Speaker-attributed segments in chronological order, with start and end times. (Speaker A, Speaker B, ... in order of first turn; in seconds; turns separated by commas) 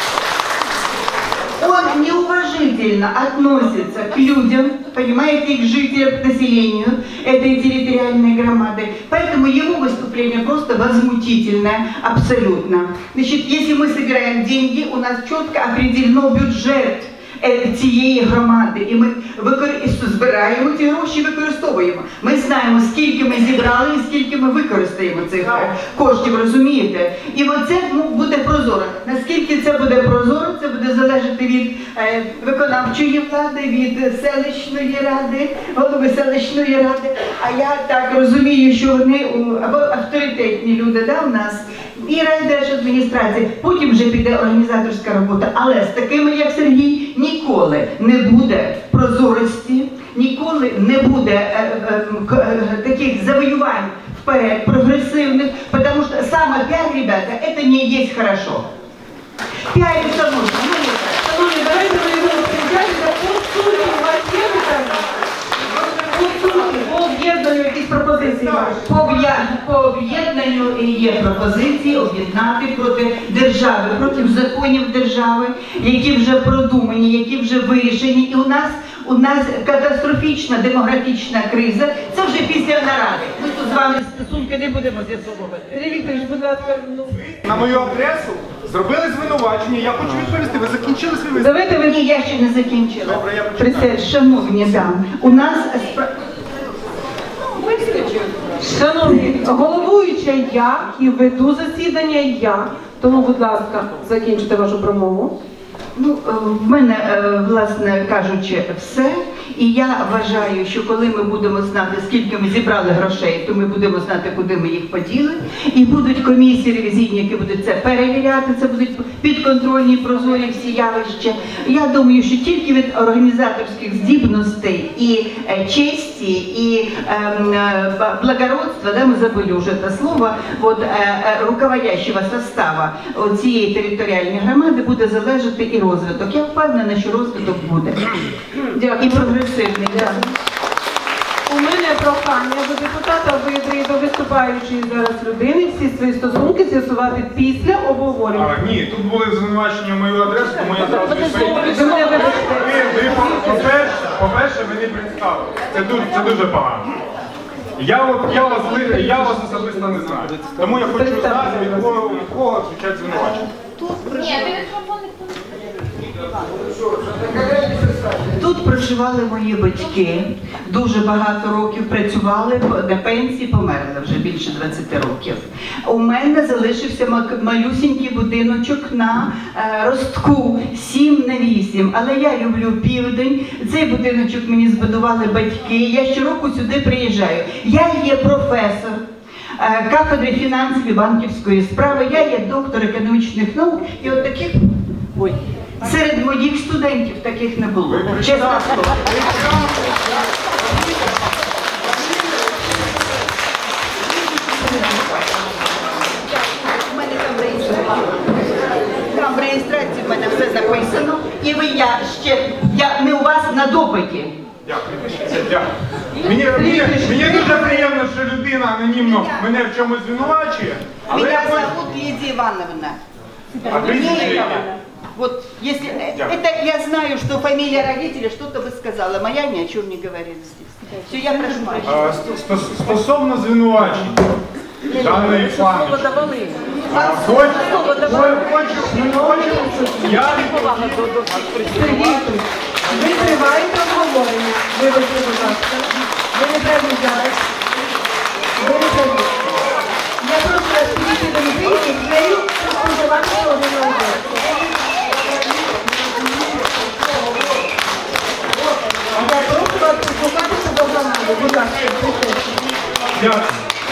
Speaker A: 1.6-58.6, Speaker A: 59.7-61.2, Speaker B: 61.2-65.1, Speaker B: 65.9-68.8, Speaker A: 68.8-85.7, Speaker B: 85.7-87.3, Speaker C: 87.4-91.7, Speaker B: 91.4-92.0, Speaker A: 91.8-96.1, Speaker C: 93.2-93.7, Speaker A: 97.7-98.1, Speaker B: 98.6-105.3, Speaker A: 106.0-138.3, Speaker B: 138.7-140.2, Speaker A: 139.0-140.3, Speaker B: 141.5-148.5, Speaker C: 148.3-157.0, Speaker B: 151.6-153.5, Speaker C: 157.8-163.5, Speaker B: 160.9-161.9, Speaker A: 167.4-189.0, Speaker A: 189.6-199.5, Speaker A: 206.9-208.3, Speaker A: 209.1-214.3, Speaker C: 214.7-221.7, Speaker B: 216.5-217.7, Speaker A: 219.0-219.4, Speaker A: 221.1-223.0, Speaker C: 223.7-224.7, Speaker A: 223.7-232.0, Speaker C: 231.8-234.2, Speaker C: 234.9-236.3, Speaker C: 236.9-241.0, Speaker B: 238.9-240.1, Speaker B: 241.7-247.4, Speaker B: 248.6-249.3, Speaker B: 250.2-254.4, Speaker B: 259.1-262.7, Speaker C: 263.1-263.5